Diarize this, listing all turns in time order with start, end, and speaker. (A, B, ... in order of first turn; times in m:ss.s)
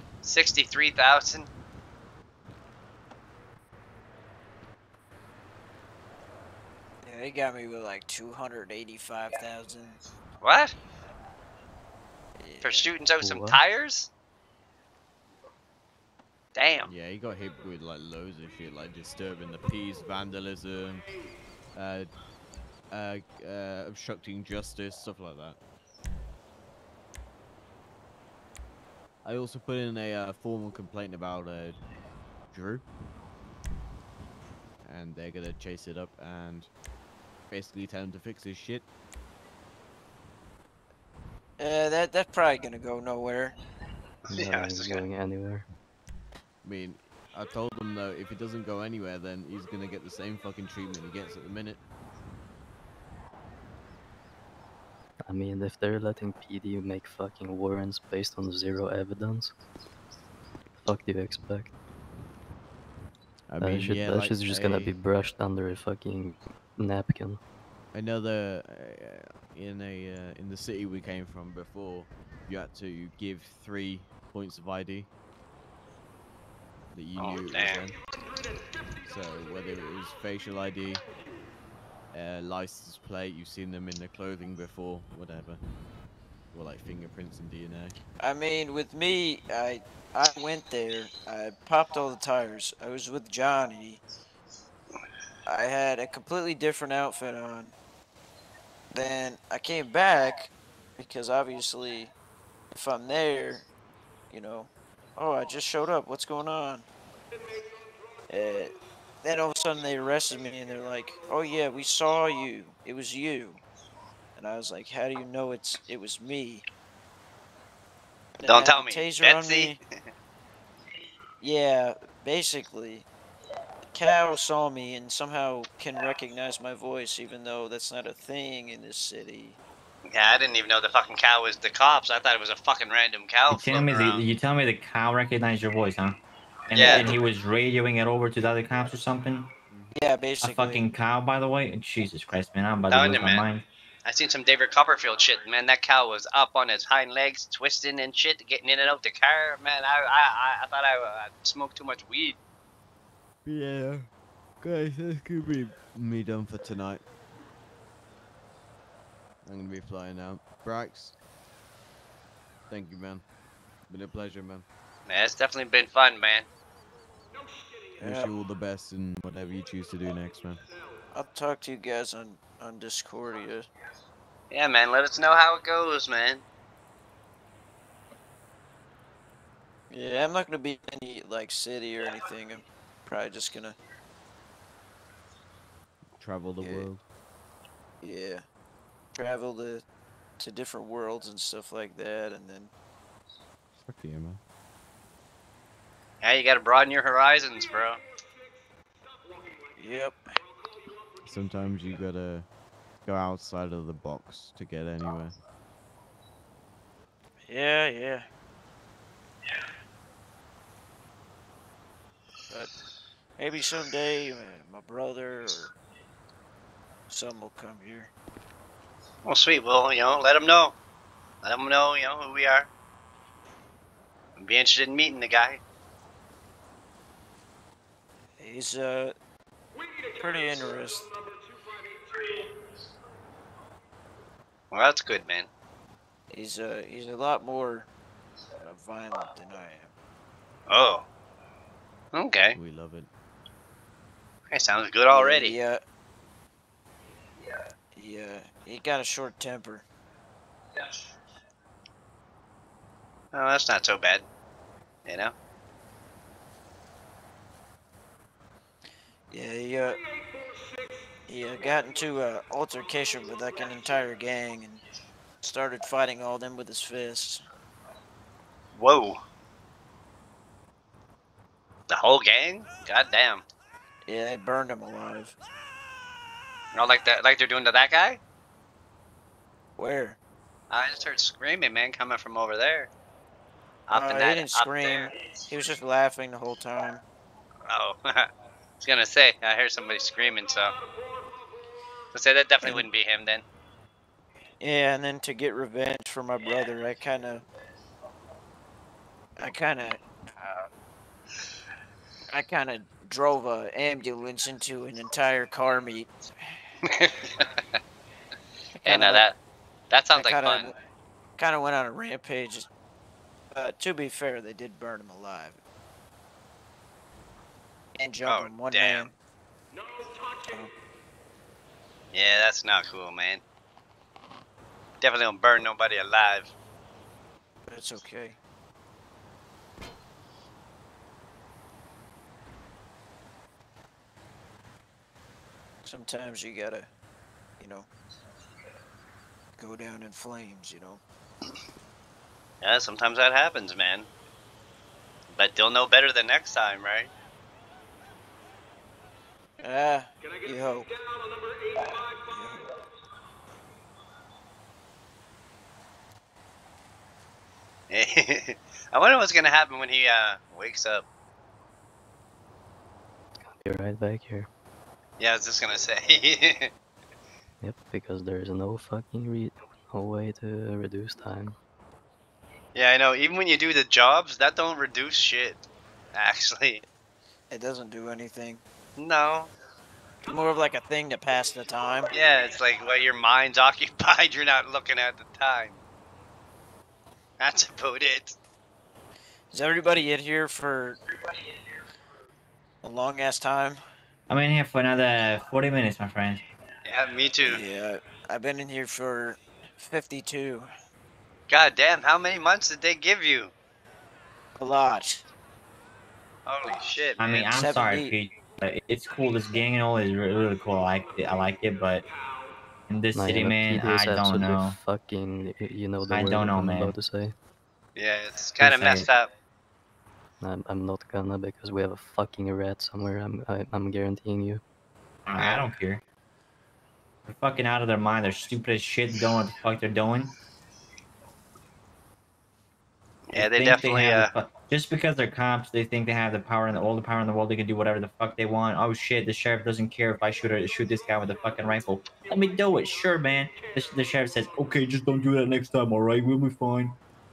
0:00.2-0:01.5 A
0:07.0-0:10.0 B
0:10.4-0:10.7 A
0:12.4-0:12.9 B
0:12.6-0:14.1 A
0:13.2-0:13.6 C
0:16.5-0:16.9 A
0:16.8-0:21.0 D
0:21.7-0:22.1 D
0:22.9-0:25.6 D
0:29.2-0:31.8 D
0:32.5-0:32.8 D
0:34.8-0:36.7 D
0:37.5-0:38.8 D
0:41.6-0:43.6 B
0:44.3-0:45.6 C
0:44.4-0:45.0 A
0:46.6-0:51.8 D
0:55.2-0:59.5 C
1:00.8-1:01.7 C
1:03.5-1:04.9 D
1:03.6-1:07.4 C
1:07.9-1:15.1 D
1:16.9-1:18.0 D
1:17.2-1:17.8 A
1:19.0-1:21.0 D
1:22.1-1:25.6 D
1:26.5-1:28.0 D
1:28.2-1:34.0 B
1:35.5-1:37.7 B
1:38.9-1:42.1 B
1:42.7-1:43.6 B
1:44.3-1:46.8 B
1:48.3-1:53.6 B
1:54.4-1:56.6 B
1:58.4-1:59.8 B
1:58.4-1:59.8 A
2:01.4-2:03.0 B
2:03.9-2:09.6 B
2:10.1-2:14.2 A
2:13.5-2:16.2 E
2:16.7-2:19.5 E
2:16.7-2:17.2 A
2:19.9-2:20.8 B
2:20.4-2:23.6 E
2:22.9-2:23.5 A
2:24.0-2:32.4 A
2:33.4-2:34.1 D
2:34.6-2:37.0 D
2:39.4-2:41.1 D
2:42.7-2:43.2 D
2:43.9-2:44.6 D
2:45.1-2:46.5 A
2:48.0-2:48.3 B
2:48.0-2:50.6 D
2:51.1-2:53.7 B
2:54.5-2:56.4 A
2:59.9-3:03.8 B
3:06.2-3:07.0 D
3:08.0-3:08.4 B
3:09.1-3:09.8 B
3:10.4-3:12.7 B
3:13.8-3:14.4 D
3:16.2-3:18.0 A
3:19.8-3:20.2 B
3:21.2-3:22.5 D
3:23.0-3:25.4 D
3:27.4-3:28.2 B
3:33.4-3:35.7 B
3:37.1-3:38.1 B
3:39.2-3:40.7 A
3:41.4-3:42.7 A
3:44.4-3:45.6 A
3:48.4-3:49.1 B
3:50.2-3:51.1 B
3:54.7-3:55.5 A
3:56.3-3:57.9 B
3:58.6-3:59.9 B
4:00.7-4:01.0 A
4:02.1-4:02.6 A
4:02.5-4:03.1 D
4:04.5-4:05.6 A
4:05.1-4:05.8 B
4:07.9-4:09.8 B
4:13.3-4:14.2 A
4:15.0-4:15.3 A
4:19.3-4:20.0 B
4:21.3-4:24.8 B
4:25.4-4:27.4 B
4:28.7-4:29.2 A
4:31.9-4:33.4 A
4:34.1-4:35.3 B
4:36.7-4:38.2 A
4:39.8-4:40.2 B
4:40.7-4:42.9 A
4:43.9-4:45.5 A
4:43.9-4:47.0 B
4:47.7-4:48.3 A
4:48.8-4:50.7 A
4:52.1-4:53.4 A
4:54.6-4:57.4 B
4:59.4-5:00.7 B
5:02.3-5:06.1 B
5:06.8-5:07.6 A
5:08.7-5:09.2 B
5:08.8-5:09.4 A
5:09.9-5:10.7 A
5:10.1-5:10.8 B
5:11.4-5:12.7 B
5:13.5-5:15.6 B
5:18.0-5:19.1 B
5:18.2-5:19.1 A
5:20.4-5:20.7 B
5:22.1-5:23.4 A
5:25.0-5:26.5 A
5:27.7-5:28.4 B
5:35.8-5:36.9 B
5:37.6-5:37.9 B
5:39.6-5:41.0 B
5:42.6-5:44.1 A
5:45.3-5:47.1 A
5:49.6-5:50.9 B
5:52.3-5:52.7 B
5:57.9-6:01.0 A
6:03.6-6:04.5 C
6:05.2-6:06.7 A
6:07.6-6:11.6 C
6:12.7-6:16.8 A
6:17.5-6:18.6 B
6:19.0-6:19.5 A
6:20.2-6:22.1 B
6:22.1-6:25.8 A
6:27.4-6:28.3 A
6:29.5-6:31.0 B
6:32.8-6:33.8 B
6:34.3-6:36.4 E
6:36.8-6:37.6 A
6:37.4-6:40.7 B
6:41.5-6:43.5 A
6:44.6-6:45.2 B
6:46.4-6:47.6 A
6:47.2-6:52.0 E
6:47.6-6:48.1 B
6:52.9-6:54.8 E
6:53.1-6:57.3 C
6:56.1-6:56.9 E
6:58.0-6:59.3 A
6:58.6-6:59.1 E
7:00.4-7:04.6 C
7:05.2-7:06.0 E
7:07.2-7:10.3 E
7:13.3-7:14.3 A
7:13.4-7:27.0 E